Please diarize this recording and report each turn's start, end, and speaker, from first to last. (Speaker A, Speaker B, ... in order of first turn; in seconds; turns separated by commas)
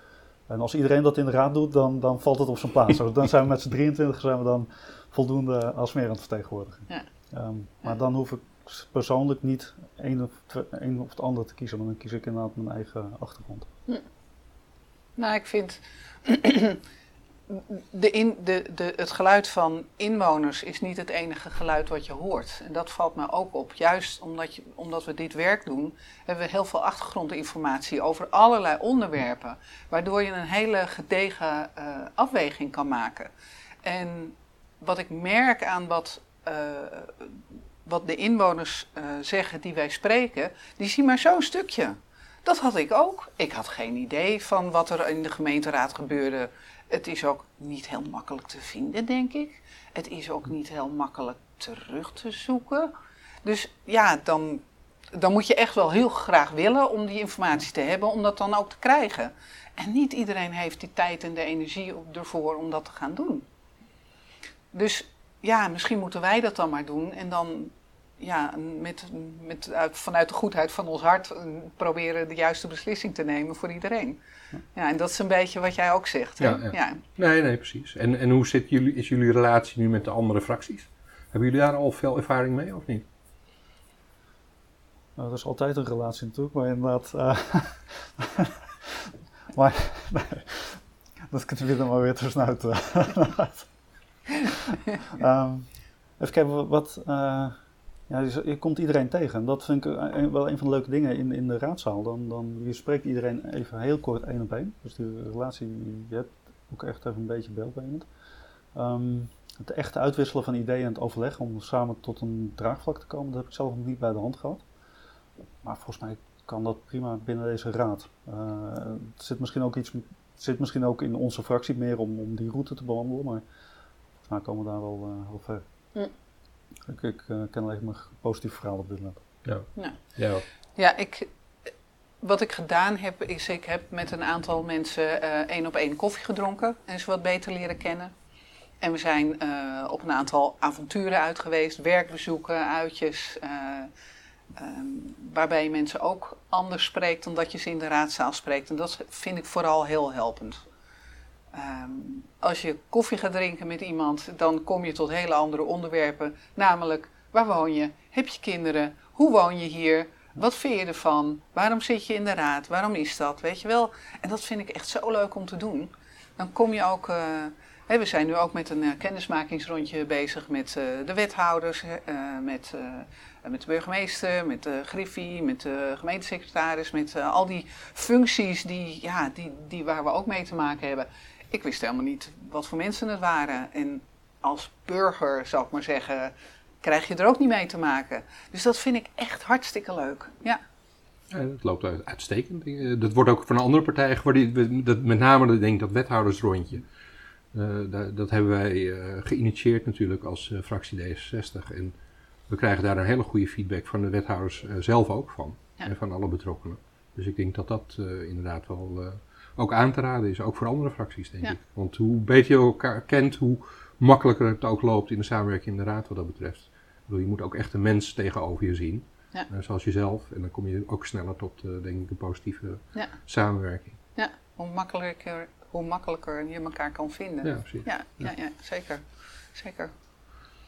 Speaker A: 0.5-13.7, Speaker B: 15.2-16.8, Speaker B: 17.5-33.3, Speaker B: 33.8-52.9, Speaker B: 53.4-63.5, Speaker B: 64.7-74.2, Speaker B: 74.7-77.0, Speaker C: 76.4-83.0, Speaker A: 85.2-93.7, Speaker A: 94.5-97.6, Speaker A: 98.1-108.1, Speaker A: 108.7-114.6, Speaker A: 115.6-123.4, Speaker A: 124.3-125.6, Speaker A: 126.8-129.2, Speaker C: 129.4-130.4, Speaker B: 130.8-131.3, Speaker B: 132.2-138.1, Speaker B: 138.8-143.9, Speaker B: 144.5-150.6, Speaker B: 151.5-190.6, Speaker C: 191.3-196.8, Speaker C: 197.5-201.9, Speaker C: 202.5-224.0, Speaker B: 224.2-229.0, Speaker C: 227.4-227.9, Speaker B: 229.5-229.9